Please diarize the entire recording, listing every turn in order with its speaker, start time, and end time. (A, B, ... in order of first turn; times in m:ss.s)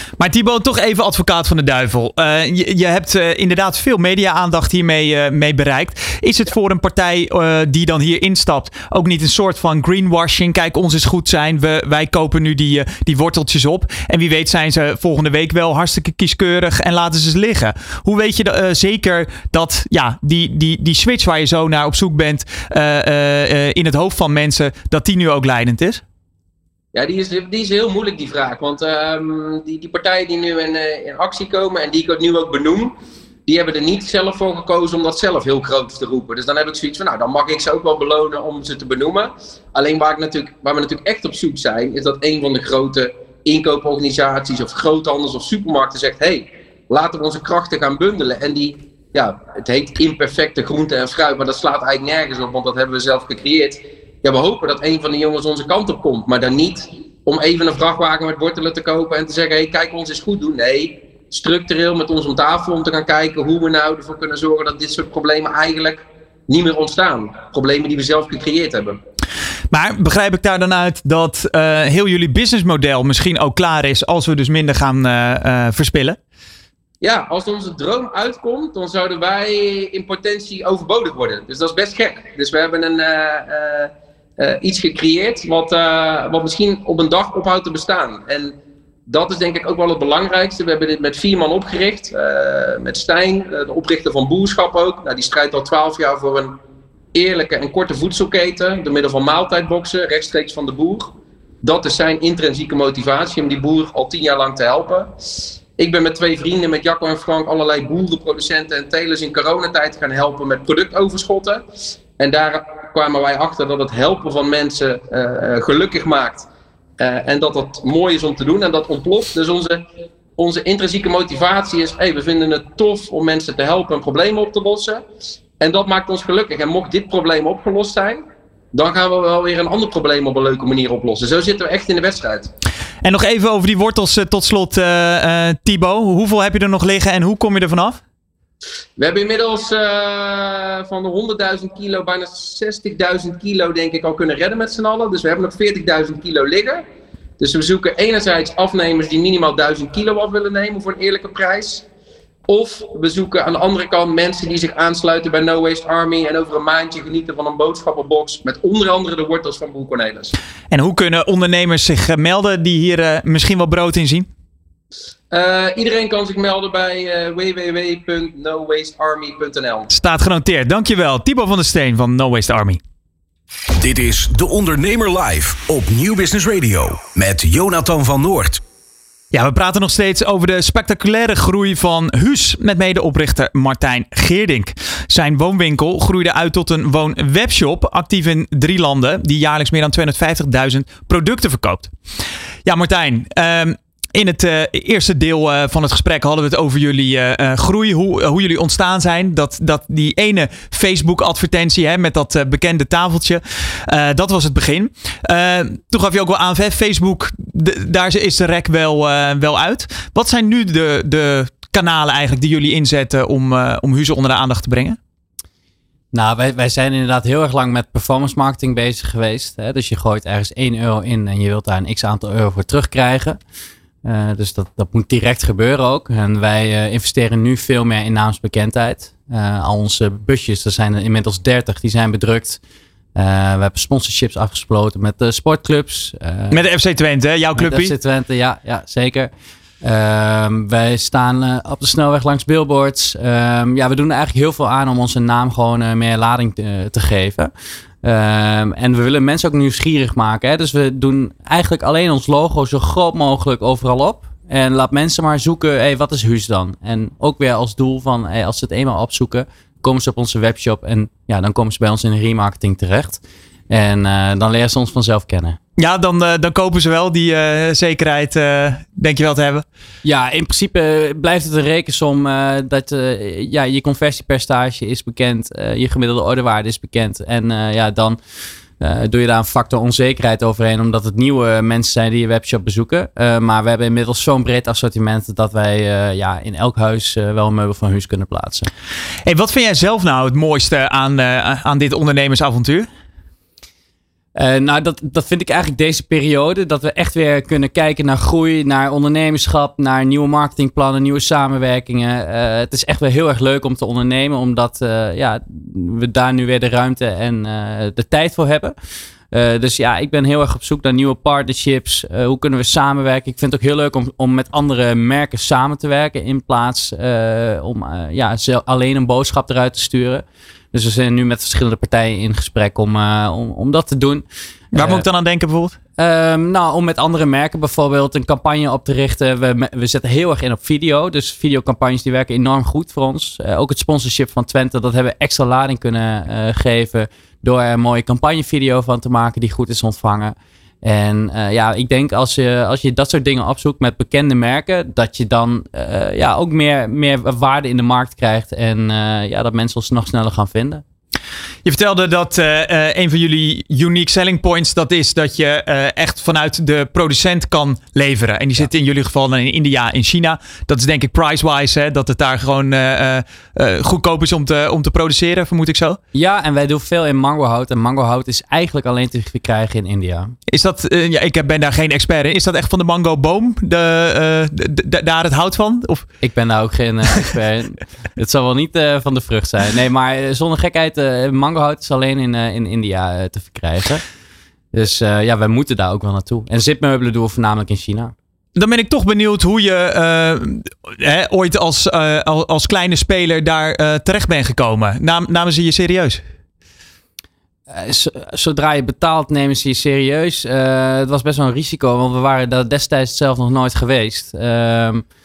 0:00.2-0:26.0 A
0:26.9-0:32.9 B
0:33.5-1:09.0 B
1:09.7-1:16.2 A
1:17.0-1:28.6 B
1:29.1-1:36.6 B
1:37.1-1:45.1 B
1:45.8-1:51.6 B
1:52.2-1:56.5 B
1:57.0-1:59.8 B
2:00.4-2:05.0 B
2:05.6-2:12.5 B
2:13.0-2:18.0 A
2:19.0-2:26.8 B
2:27.4-2:31.9 B
2:32.5-2:40.4 B
2:40.7-2:44.3 A
2:45.3-2:49.9 B
2:49.9-2:52.8 A
2:53.8-2:58.6 C
2:59.3-3:11.9 A
3:12.6-3:35.0 A
3:36.1-3:43.4 D
3:44.0-3:52.6 D
3:53.2-3:56.6 D
3:56.5-3:57.9 A
3:57.6-3:59.3 D
3:59.8-4:07.5 D
4:08.0-4:25.6 D
4:25.8-4:29.6 A
4:30.0-4:38.2 D
4:38.8-4:48.7 D
4:49.3-4:52.9 A
4:54.4-5:08.8 D
5:09.3-5:25.1 D
5:24.7-5:25.8 A
5:26.0-5:50.8 D
5:51.6-6:06.0 A
6:06.1-6:10.4 D
6:10.5-6:16.1 A
6:16.2-6:24.0 D
6:24.7-6:28.1 D
6:28.6-6:36.2 A
6:37.7-6:45.0 D